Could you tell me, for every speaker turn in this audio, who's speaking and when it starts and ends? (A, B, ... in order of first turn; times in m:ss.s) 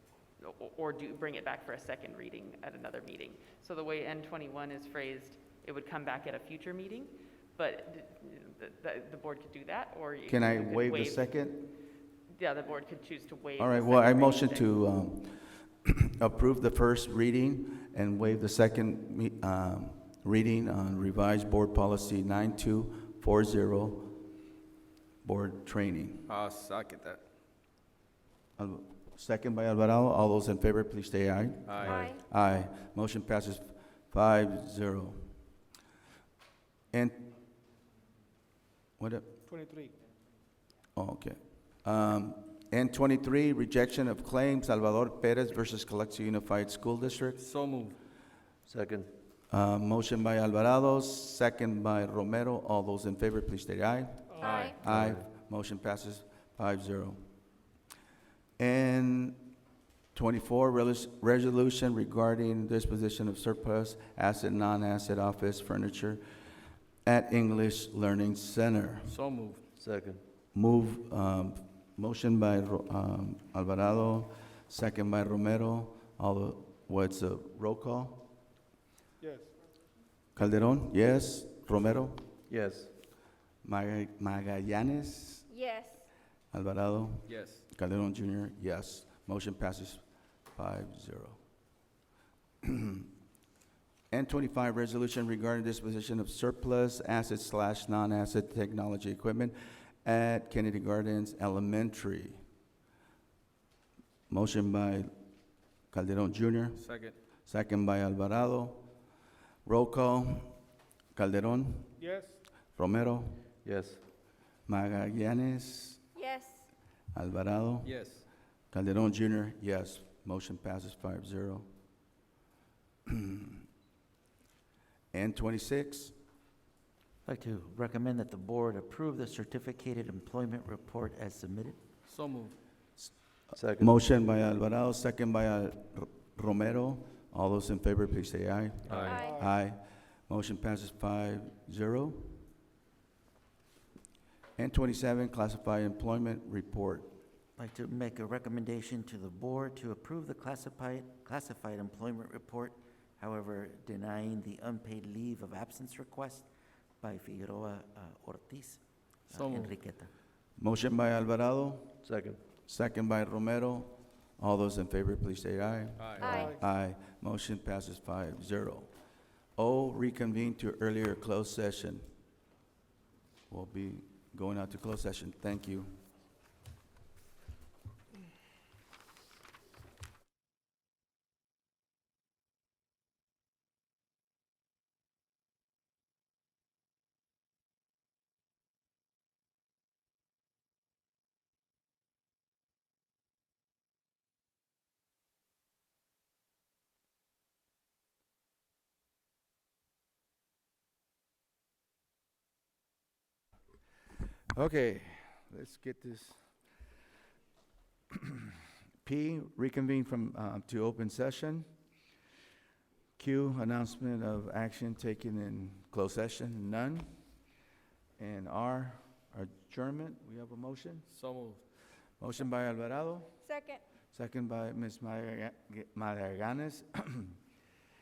0:00.4-0:11.4 A
0:10.3-0:11.8 B
0:12.3-0:14.7 A
0:13.6-0:24.2 B
0:25.2-0:26.3 B
0:26.3-0:27.2 C
0:28.6-0:35.3 B
0:31.7-0:32.1 C
0:31.8-0:32.2 D
0:36.9-0:37.3 B
0:39.0-0:39.3 B
0:39.5-0:39.9 E
0:41.0-0:47.4 B
0:47.4-0:48.0 C
0:48.7-0:49.1 F
0:49.5-0:57.2 B
0:54.3-0:54.7 E
0:54.4-0:54.8 D
0:54.4-0:54.7 C
0:54.8-0:55.2 F
0:58.6-0:59.5 B
1:00.1-1:06.2 B
1:07.0-1:09.1 B
1:09.0-1:09.6 C
1:09.8-1:10.2 F
1:10.5-1:18.3 B
1:19.2-1:19.5 E
1:20.4-1:22.2 B
1:22.5-1:22.9 F
1:23.6-1:25.5 B
1:25.5-1:26.1 D
1:26.5-1:30.0 B
1:27.3-1:27.6 C
1:30.5-1:31.4 B
1:32.6-1:33.1 B
1:34.1-1:42.4 B
1:44.3-1:45.1 B
1:45.9-1:46.9 B
1:46.8-1:47.2 C
1:47.5-1:48.9 B
1:49.6-1:50.6 B
1:51.1-1:51.9 B
1:52.0-1:52.4 E
1:52.8-1:53.4 B
1:53.6-1:54.0 F
1:54.7-1:56.0 B
1:56.2-1:56.7 D
1:57.1-2:01.7 B
1:57.8-1:58.2 C
2:03.1-2:03.6 B
2:05.1-2:06.1 B
2:07.2-2:11.8 G
2:12.1-2:12.6 C
2:13.5-2:13.9 F
2:13.8-2:22.4 B
2:18.9-2:19.6 E
2:18.9-2:19.2 C
2:19.0-2:19.4 D
2:24.6-2:27.1 B
2:27.6-2:36.5 G
2:37.0-2:40.1 G
2:39.3-2:39.8 C
2:40.6-2:41.9 B
2:42.0-2:42.4 F
2:42.7-2:48.9 B
2:46.0-2:46.4 C
2:46.2-2:46.6 D
2:49.6-2:52.0 B
2:53.5-2:55.9 B
3:24.5-3:26.5 B
3:28.1-3:31.7 B
3:33.2-3:37.1 B
3:38.2-3:41.1 B
3:41.1-3:41.6 C
3:42.2-3:43.3 B
3:43.4-3:43.8 D
3:44.1-3:47.4 B